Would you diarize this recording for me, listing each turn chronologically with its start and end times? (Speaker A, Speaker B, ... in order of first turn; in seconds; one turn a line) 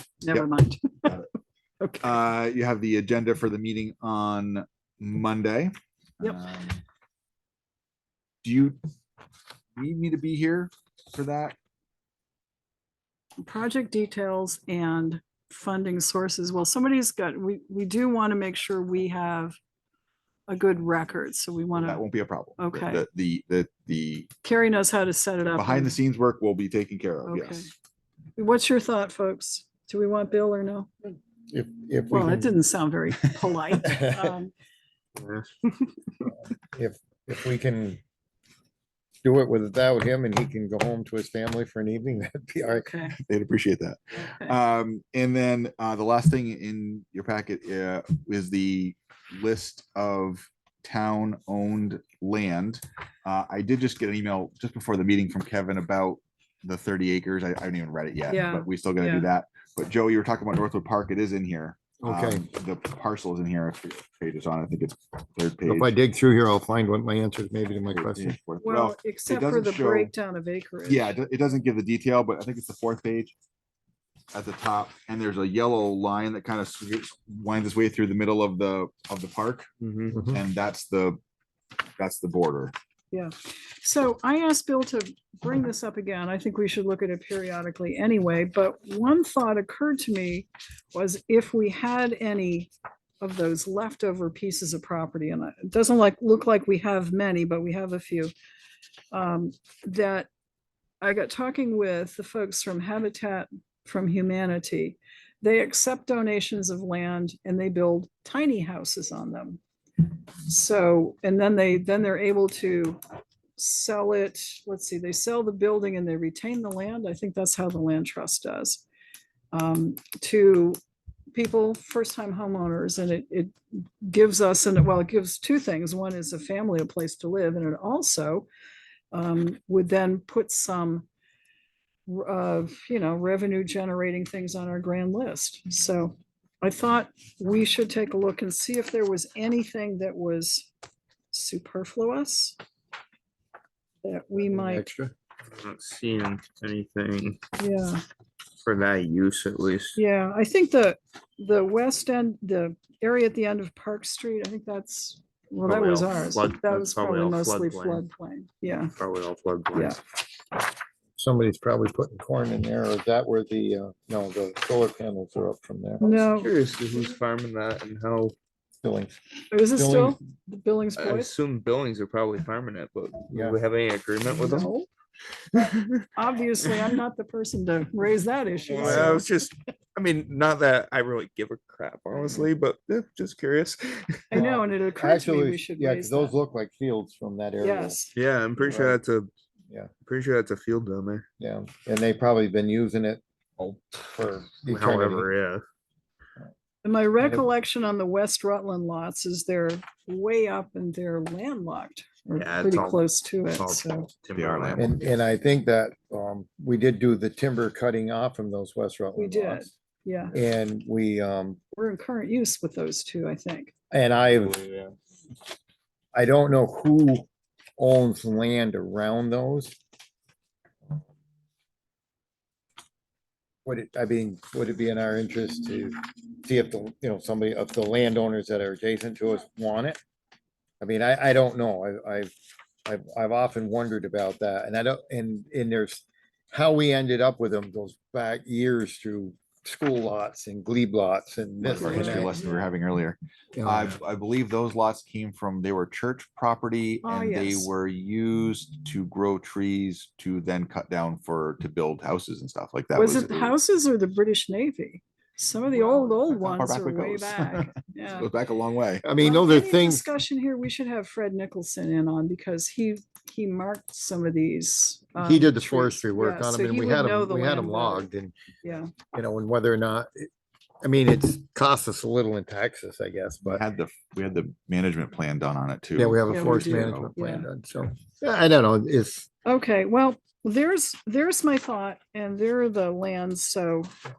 Speaker A: 0.2-1.1
Speaker B: 1.0-1.3
Speaker B: 2.0-6.8
Speaker B: 8.4-8.8
Speaker B: 9.8-11.6
Speaker A: 13.4-19.6
Speaker A: 20.5-22.0
Speaker B: 21.8-24.3
Speaker A: 22.6-23.0
Speaker A: 24.4-26.0
Speaker B: 25.5-27.7
Speaker A: 27.2-27.7
Speaker A: 28.4-30.9
Speaker C: 31.5-32.5
Speaker A: 32.1-34.5
Speaker C: 33.8-34.2
Speaker D: 35.2-35.5
Speaker C: 36.7-38.0
Speaker C: 39.2-42.9
Speaker A: 42.8-43.1
Speaker B: 43.2-65.9
Speaker A: 44.2-44.5
Speaker A: 58.3-59.3
Speaker C: 62.0-62.4
Speaker C: 65.7-68.4
Speaker B: 67.9-70.1
Speaker A: 68.6-71.2
Speaker B: 70.9-73.3
Speaker B: 74.3-81.2
Speaker D: 79.8-80.2
Speaker B: 82.0-82.7
Speaker A: 83.1-98.3
Speaker A: 99.1-100.3
Speaker A: 101.0-109.6
Speaker A: 110.5-113.0
Speaker A: 113.6-118.8
Speaker A: 119.5-120.8
Speaker A: 121.3-128.5
Speaker A: 129.1-131.1
Speaker A: 132.1-140.7
Speaker A: 141.3-142.6
Speaker A: 144.0-144.8
Speaker C: 144.4-145.1
Speaker D: 145.5-147.4
Speaker A: 147.6-148.0
Speaker D: 148.6-150.0
Speaker A: 149.9-158.9
Speaker D: 155.6-158.0
Speaker D: 158.9-160.0
Speaker C: 161.2-166.1
Speaker A: 166.0-166.5
Speaker D: 166.2-168.3
Speaker C: 168.8-169.2
Speaker A: 169.5-171.3
Speaker C: 169.7-170.2
Speaker D: 171.0-174.7
Speaker C: 173.3-173.6
Speaker A: 174.3-174.9
Speaker D: 175.5-176.1
Speaker A: 176.2-179.2
Speaker D: 178.6-184.4
Speaker C: 178.8-179.2
Speaker A: 184.3-186.3
Speaker C: 184.3-188.0
Speaker A: 187.6-188.1
Speaker D: 188.1-189.3
Speaker C: 188.6-189.0
Speaker D: 190.0-191.2
Speaker C: 191.4-193.2
Speaker C: 193.9-195.3
Speaker D: 194.6-195.6
Speaker A: 196.8-204.1
Speaker D: 202.3-205.0
Speaker B: 204.3-204.9
Speaker C: 204.7-209.7
Speaker A: 209.1-210.3
Speaker C: 210.3-211.6
Speaker A: 211.8-213.7
Speaker C: 213.9-214.6
Speaker D: 214.3-214.9
Speaker C: 216.1-217.3
Speaker C: 217.8-219.7
Speaker C: 223.6-230.0
Speaker C: 230.8-232.3
Speaker C: 232.8-242.4
Speaker B: 241.6-253.6
Speaker A: 241.9-242.5
Speaker C: 243.5-243.9
Speaker A: 247.0-247.7
Speaker A: 252.9-258.3
Speaker B: 255.9-259.0
Speaker C: 259.0-260.0
Speaker A: 259.2-268.1
Speaker C: 265.2-268.4
Speaker A: 268.6-268.9
Speaker C: 269.0-270.3
Speaker C: 270.8-273.6
Speaker B: 273.4-277.1
Speaker C: 275.9-279.3
Speaker A: 276.3-277.5
Speaker A: 279.4-283.9